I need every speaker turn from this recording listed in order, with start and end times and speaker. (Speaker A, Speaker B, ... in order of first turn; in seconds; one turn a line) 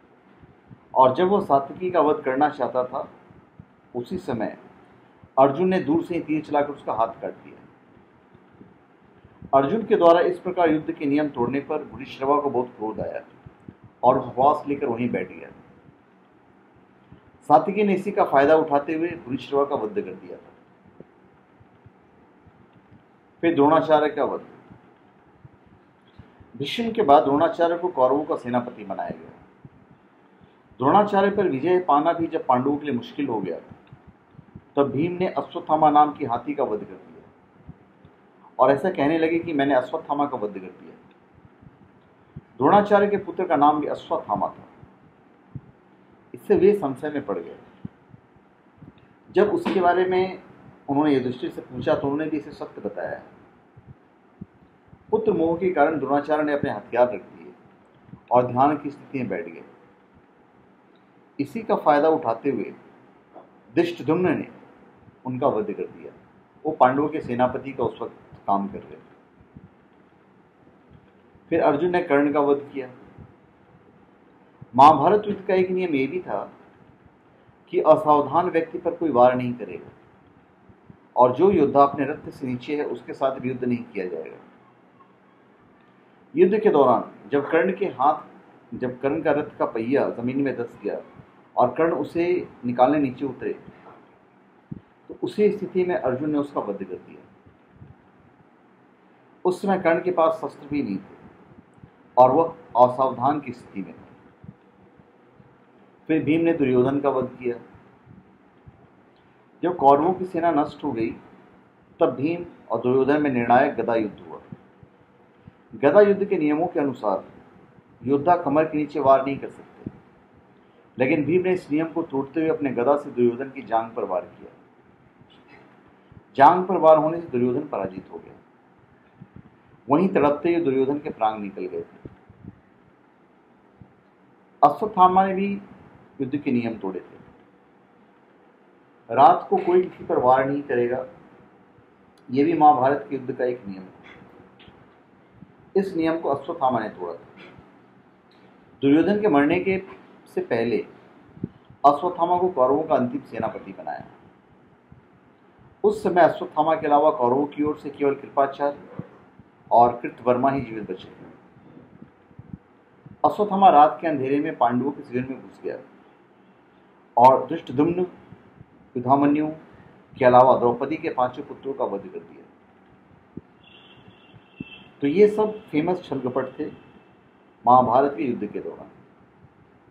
Speaker A: 1.0-3.1
Speaker A: 3.9-4.6
Speaker A: 5.4-7.6
Speaker A: 9.5-13.3
Speaker A: 14.0-15.6
Speaker A: 17.4-20.5
Speaker A: 23.4-24.6
Speaker A: 26.6-29.4
Speaker A: 30.8-33.7
Speaker A: 34.8-37.3
Speaker A: 38.6-41.0
Speaker A: 42.6-44.7
Speaker A: 46.3-47.6
Speaker A: 49.3-53.3
Speaker A: 55.1-57.5
Speaker A: 58.3-59.7
Speaker A: 61.4-62.8
Speaker A: 63.7-64.6
Speaker A: 65.2-69.1
Speaker A: 71.5-72.9
Speaker A: 74.7-76.5
Speaker A: 77.7-79.9
Speaker A: 81.2-84.4
Speaker A: 86.3-91.0
Speaker A: 91.6-93.6
Speaker A: 95.1-97.3
Speaker A: 99.5-101.2
Speaker A: 102.2-104.1
Speaker A: 106.1-107.6
Speaker A: 109.6-111.2
Speaker A: 112.0-114.4
Speaker A: 115.8-117.3
Speaker A: 118.0-119.9
Speaker A: 121.0-124.6
Speaker A: 126.3-128.4
Speaker A: 129.9-132.0
Speaker A: 134.6-135.6
Speaker A: 136.2-137.2
Speaker A: 139.1-141.1
Speaker A: 142.3-144.0
Speaker A: 145.8-147.3
Speaker A: 148.8-150.9
Speaker A: 151.8-154.2
Speaker A: 155.8-158.8
Speaker A: 159.7-161.2
Speaker A: 163.2-165.8
Speaker A: 167.2-168.1
Speaker A: 168.9-169.6
Speaker A: 170.2-172.5
Speaker A: 175.0-176.7
Speaker A: 177.6-178.9